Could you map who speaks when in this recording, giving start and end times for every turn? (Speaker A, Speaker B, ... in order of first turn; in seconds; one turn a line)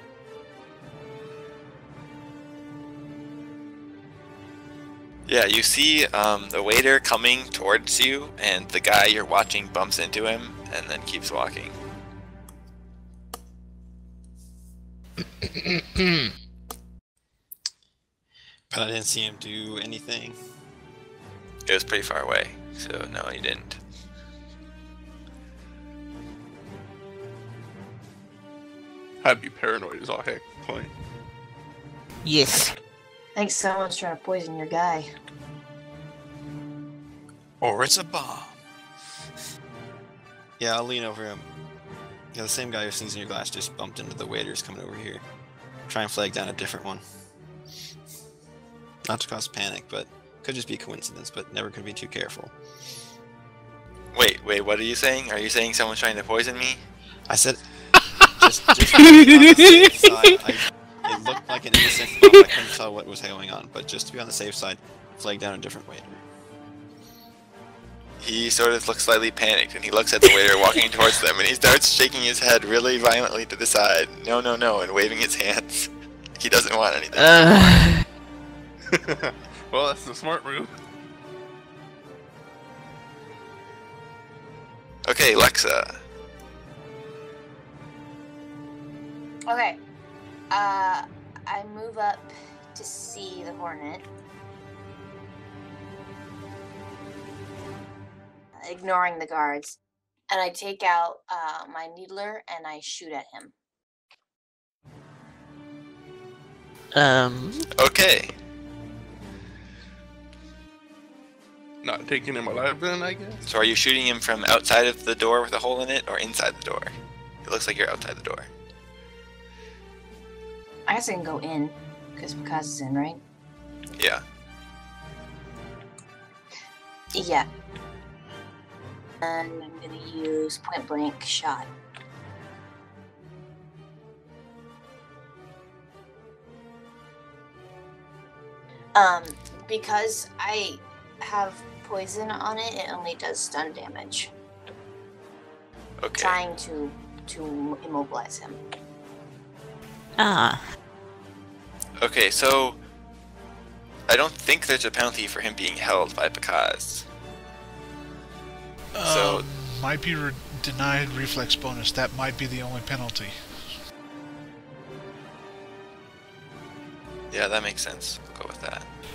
Speaker A: 5.3-11.7
Speaker B: 15.5-16.0
Speaker C: 18.7-20.4
Speaker A: 21.7-23.8
Speaker D: 29.2-30.9
Speaker B: 32.2-32.7
Speaker E: 33.4-35.1
Speaker C: 37.6-38.5
Speaker C: 40.6-41.4
Speaker C: 42.3-45.2
Speaker C: 45.9-47.0
Speaker C: 49.0-52.5
Speaker A: 54.1-56.8
Speaker C: 57.3-57.6
Speaker C: 58.3-66.2
Speaker B: 59.0-59.9
Speaker A: 68.2-77.7
Speaker B: 77.2-78.0
Speaker D: 78.9-80.8
Speaker A: 85.0-86.0
Speaker E: 89.5-89.8
Speaker E: 90.5-94.0
Speaker E: 98.6-99.8
Speaker E: 100.3-103.5
Speaker B: 106.9-107.7
Speaker A: 107.8-108.3
Speaker D: 111.8-113.4
Speaker A: 113.5-116.9
Speaker A: 117.4-118.5
Speaker E: 120.9-123.2
Speaker A: 124.0-124.2
Speaker E: 127.1-127.5
Speaker E: 129.2-131.7
Speaker E: 138.9-144.3
Speaker A: 146.0-146.3
Speaker E: 146.2-148.6
Speaker B: 150.2-150.6
Speaker A: 152.0-152.8
Speaker A: 154.1-157.1
Speaker F: 158.9-163.4
Speaker A: 159.0-159.5
Speaker A: 167.3-168.8